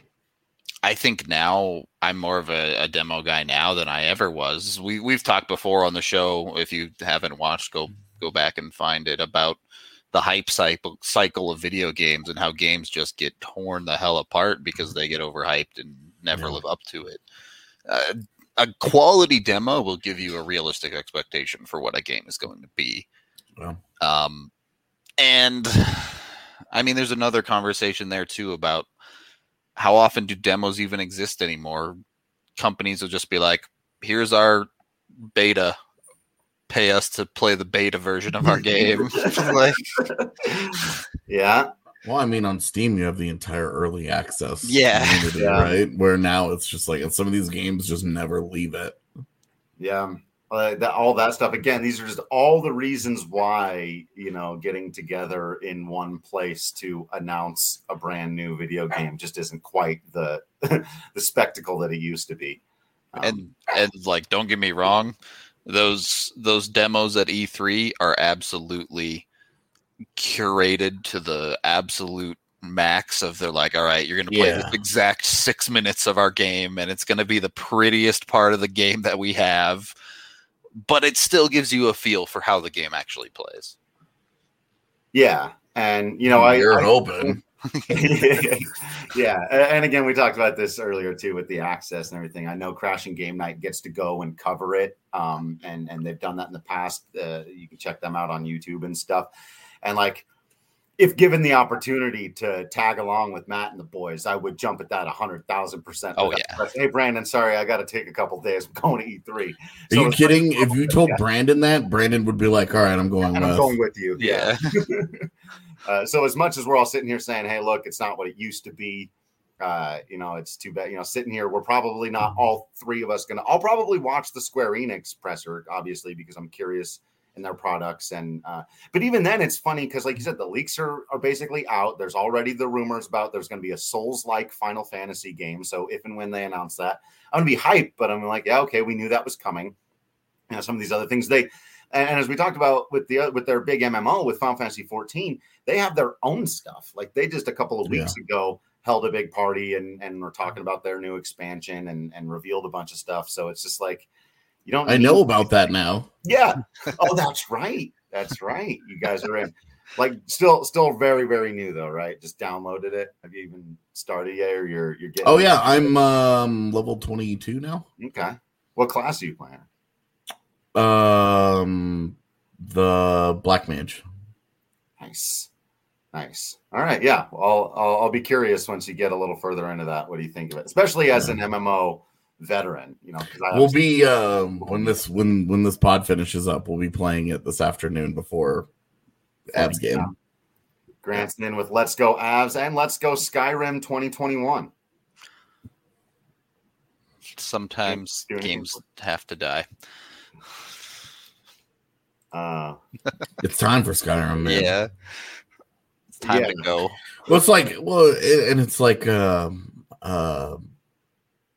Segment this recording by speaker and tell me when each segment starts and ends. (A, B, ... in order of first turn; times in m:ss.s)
0:00.8-0:09.6 A
0:10.1-0:17.2 A
0:16.3-0:16.6 B
0:17.9-0:23.0 A
0:24.0-0:24.5 A
0:25.2-0:28.9 A
0:29.8-0:32.0 A
0:32.6-0:34.7 A
0:35.3-0:35.8 A
0:36.7-0:39.8 A
0:38.4-0:41.7 C
0:42.0-0:49.0 B
0:44.6-0:45.4 A
0:45.4-0:45.8 C
0:49.8-1:02.6 C
1:03.1-1:03.4 C
1:03.2-1:05.1 A
1:05.6-1:09.2 A
1:10.2-1:19.9 A
1:14.3-1:14.8 B
1:20.8-1:23.7 A
1:25.1-1:39.3 C
1:26.3-1:27.4 B
1:27.7-1:28.2 A
1:39.8-1:40.2 C
1:41.0-1:51.2 C
1:46.2-1:46.6 A
1:49.9-1:53.7 B
1:53.3-1:55.3 C
1:54.2-1:54.6 A
1:55.8-2:19.7 C
2:20.5-2:34.1 C
2:27.9-2:28.1 B
2:34.6-2:35.5 C
2:34.8-2:36.1 B
2:36.2-2:45.9 C
2:45.2-2:47.8 B
2:48.0-2:49.7 C
2:50.7-2:54.0 B
2:55.0-2:55.5 C
2:56.1-3:03.8 C
3:03.5-3:08.7 B
3:04.6-3:04.9 C
3:09.5-3:10.1 C
3:09.5-3:10.1 B
3:11.0-3:14.7 C
3:17.3-3:19.6 A
3:17.8-3:18.8 C
3:22.3-3:22.8 C
3:23.4-3:24.7 B
3:24.4-3:24.9 A
3:26.2-3:27.0 A
3:26.2-3:26.6 C
3:27.3-3:30.6 B